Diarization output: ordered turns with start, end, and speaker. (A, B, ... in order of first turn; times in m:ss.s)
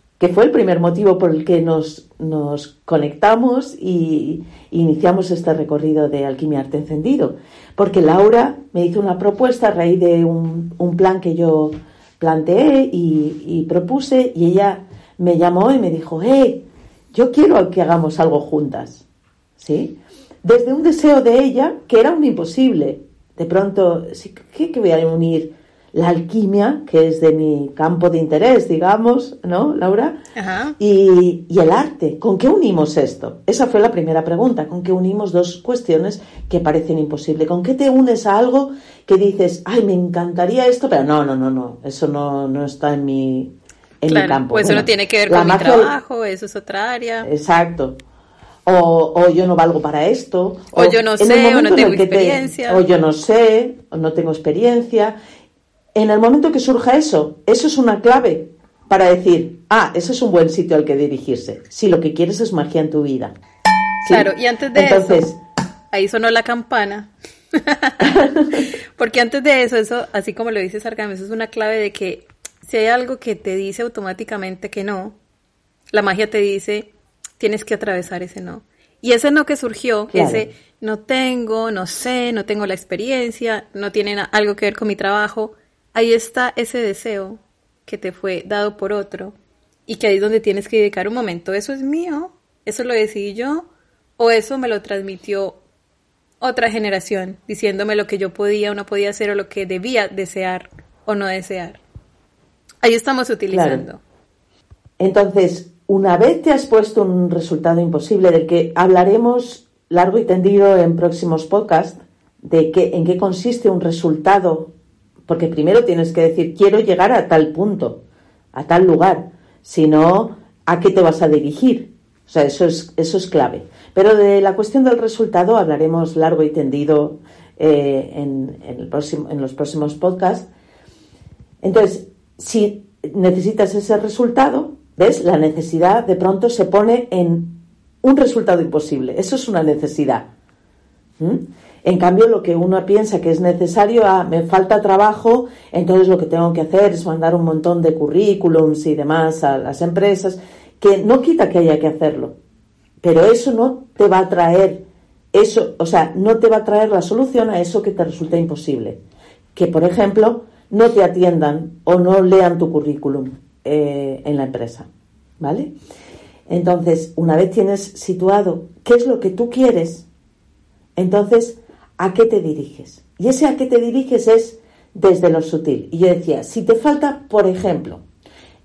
0:00.2-0:19.0 A
0:19.6-0:30.2 A
0:30.4-0:30.8 B
0:30.8-0:46.0 A
0:44.1-0:47.3 B
0:47.2-0:48.0 A
0:48.6-0:55.2 A
0:50.7-0:52.8 B
0:55.9-1:03.4 A
1:04.0-1:05.4 A
1:04.1-1:05.3 B
1:05.9-1:08.1 B
1:08.0-1:08.7 A
1:09.0-1:15.2 B
1:15.9-1:29.4 B
1:20.1-1:20.5 A
1:29.9-1:35.6 B
1:36.4-1:41.8 B
1:42.8-1:44.0 B
1:43.5-1:43.8 A
1:45.0-1:54.7 A
1:55.3-1:58.0 A
1:58.5-2:10.5 A
2:11.6-2:20.3 A
2:21.2-2:32.4 A
2:33.0-2:39.0 A
2:39.6-2:44.9 A
2:45.4-2:45.7 A
2:46.5-2:50.1 A
2:51.0-2:58.0 A